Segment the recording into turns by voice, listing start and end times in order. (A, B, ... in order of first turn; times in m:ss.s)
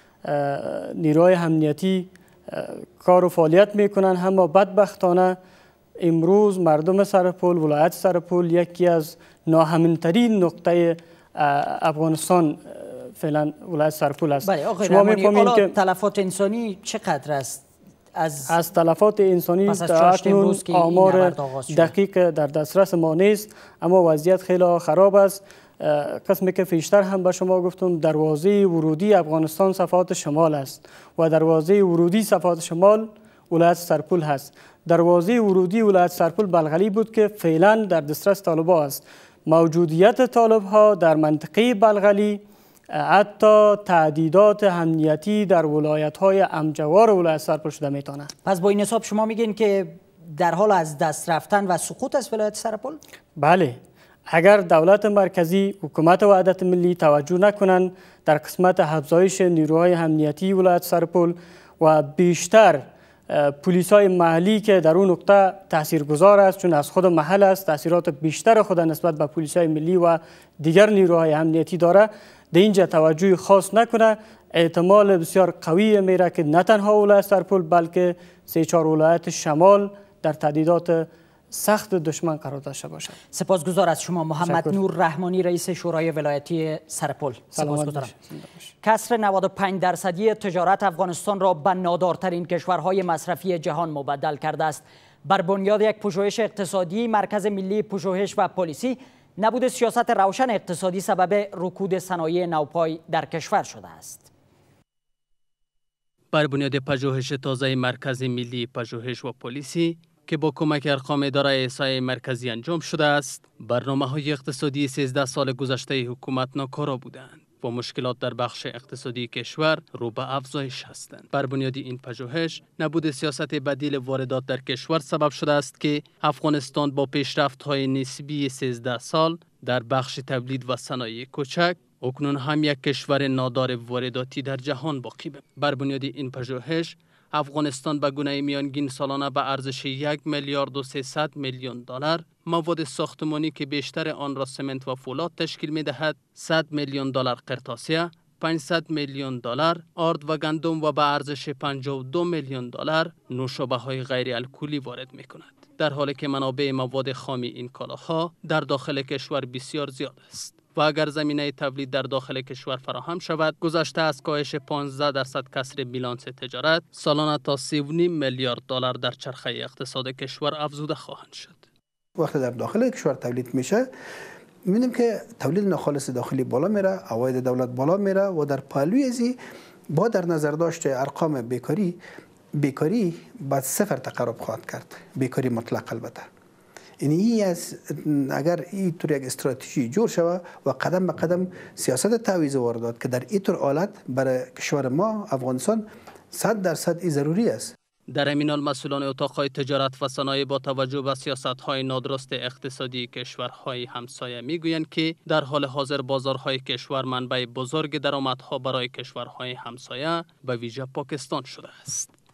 0:00.2-0:05.4 A
0:06.0-0:15.7 A
0:14.4-0:17.6 B
0:18.2-0:18.5 B
0:18.5-0:48.3 A
0:19.7-0:21.9 B
0:48.4-0:53.0 B
0:53.4-0:53.8 A
0:54.3-1:23.2 A
1:23.3-1:28.1 B
1:24.4-1:24.8 A
1:27.5-1:28.7 A
1:28.8-1:44.3 B
1:46.3-2:51.6 C
2:52.2-2:53.9 D
2:54.6-2:59.4 D
2:59.9-3:02.0 D
3:02.6-3:06.3 D
3:07.0-3:17.7 D
3:18.1-3:32.1 C